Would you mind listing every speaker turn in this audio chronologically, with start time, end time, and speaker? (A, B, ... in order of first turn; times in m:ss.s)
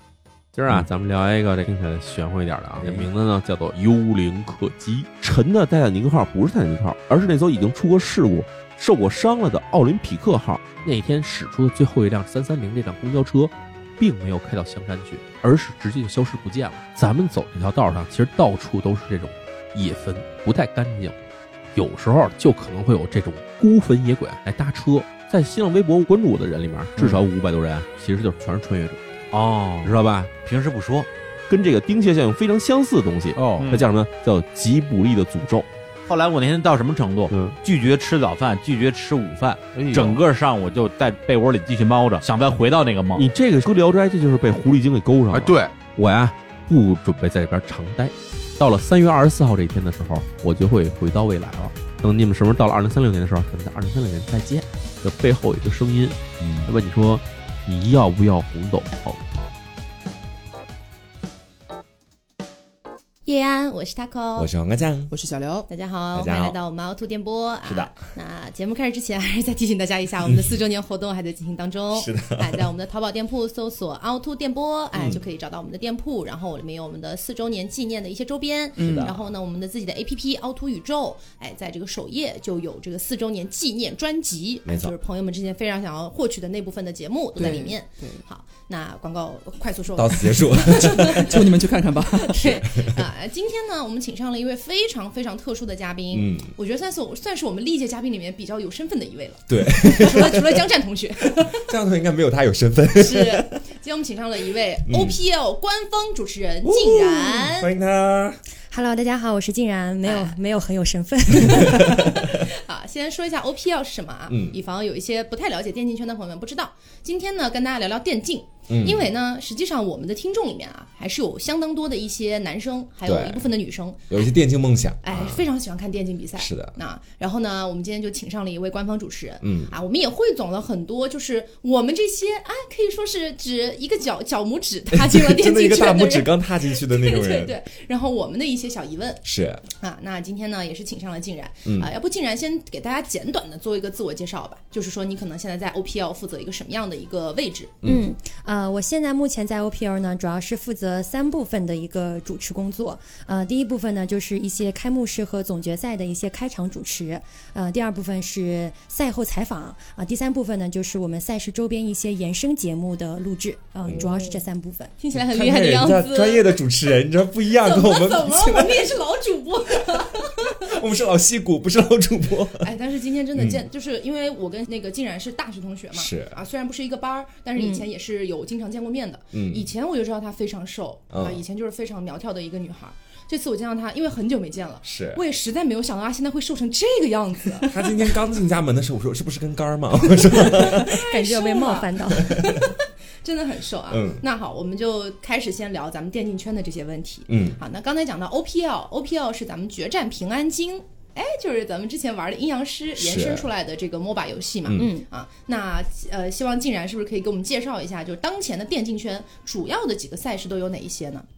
0:00.6-0:21.2 A
0:02.8-0:03.1 B
0:21.8-0:29.0 A
0:29.3-0:31.1 C
0:29.8-0:30.3 A
0:31.5-0:35.7 A
0:33.4-0:33.8 C
0:36.1-0:43.2 C
0:37.3-0:37.6 A
0:39.9-0:40.2 A
0:43.1-0:59.2 A
0:45.3-0:45.7 C
1:03.3-1:04.5 D
1:04.4-1:05.1 B
1:05.1-1:05.7 E
1:05.7-1:41.6 D
1:06.1-1:06.6 B
1:07.6-1:07.9 B
1:11.9-1:12.6 B
1:15.0-1:15.2 B
1:18.8-1:19.2 B
1:18.8-1:19.1 E
1:24.7-1:25.0 B
1:27.4-1:28.2 E
1:30.0-1:31.5 B
1:31.2-1:32.7 E
1:32.5-1:33.0 B
1:36.1-1:36.5 B
1:39.5-1:40.6 B
1:41.4-1:43.6 B
1:42.9-1:47.7 D
1:44.9-1:45.2 B
1:46.6-1:48.4 B
1:48.7-1:52.0 F
1:50.0-1:50.4 D
1:51.4-1:52.4 B
1:52.3-2:04.3 D
1:54.3-1:54.6 B
1:58.7-1:59.1 B
2:03.0-2:03.5 B
2:04.1-2:05.5 B
2:05.0-2:19.2 D
2:06.4-2:06.7 B
2:09.4-2:09.7 B
2:14.9-2:17.6 B
2:19.2-2:19.6 B
2:19.8-2:27.8 D
2:21.7-2:21.9 B
2:27.8-2:44.9 F
2:43.9-2:44.4 D
2:45.0-2:46.6 D
2:45.1-2:49.0 B
2:47.6-2:50.9 D
2:50.5-2:52.7 B
2:52.6-3:08.0 D
2:53.4-2:53.6 B
2:56.0-2:56.4 B
2:57.6-2:57.8 F
2:59.3-2:59.7 B
3:01.1-3:01.4 B
3:04.8-3:05.2 B
3:07.7-3:11.0 B
3:10.4-3:12.7 D
3:11.0-3:12.4 F
3:12.3-3:12.7 B
3:13.2-3:31.3 D
3:13.9-3:14.2 B
3:17.3-3:17.6 B
3:23.0-3:23.5 B
3:24.8-3:25.0 F